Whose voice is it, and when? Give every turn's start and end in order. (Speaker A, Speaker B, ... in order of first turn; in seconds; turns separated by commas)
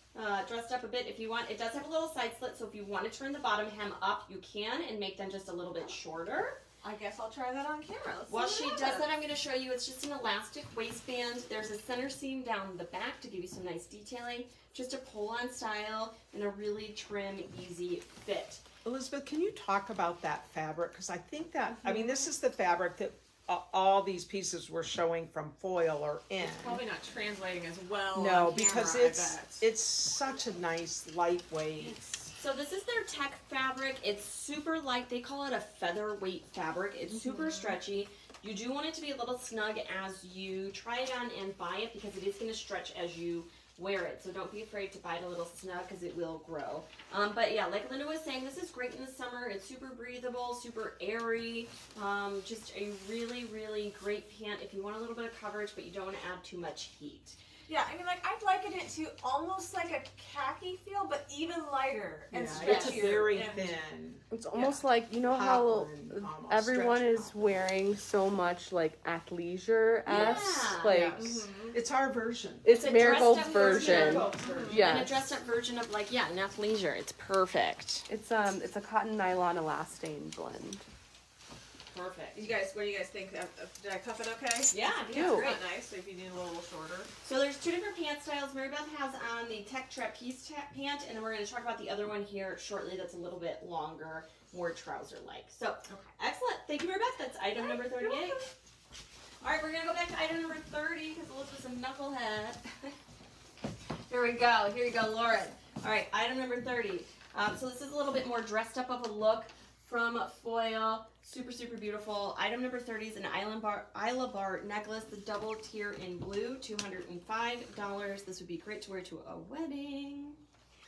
Speaker A: 0.1-6.6, Speaker B: 6.8-9.1, Speaker A: 8.3-18.6, Speaker C: 18.9-26.8, Speaker B: 26.4-29.7, Speaker C: 28.1-32.0, Speaker B: 31.8-32.4, Speaker A: 32.4-57.4, Speaker B: 57.7-63.7, Speaker C: 62.3-67.6, Speaker A: 62.6-63.1, Speaker D: 64.3-71.4, Speaker A: 70.1-71.0, Speaker C: 70.8-74.8, Speaker B: 71.1-71.8, Speaker D: 72.6-75.2, Speaker A: 72.8-78.1, Speaker B: 74.2-74.8, Speaker D: 78.1-80.8, Speaker A: 81.9-82.4, Speaker B: 82.3-87.1, Speaker A: 84.7-85.6, Speaker D: 85.1-85.5, Speaker A: 87.2-98.5, Speaker B: 95.9-96.1, Speaker A: 99.4-103.0, Speaker A: 104.1-120.4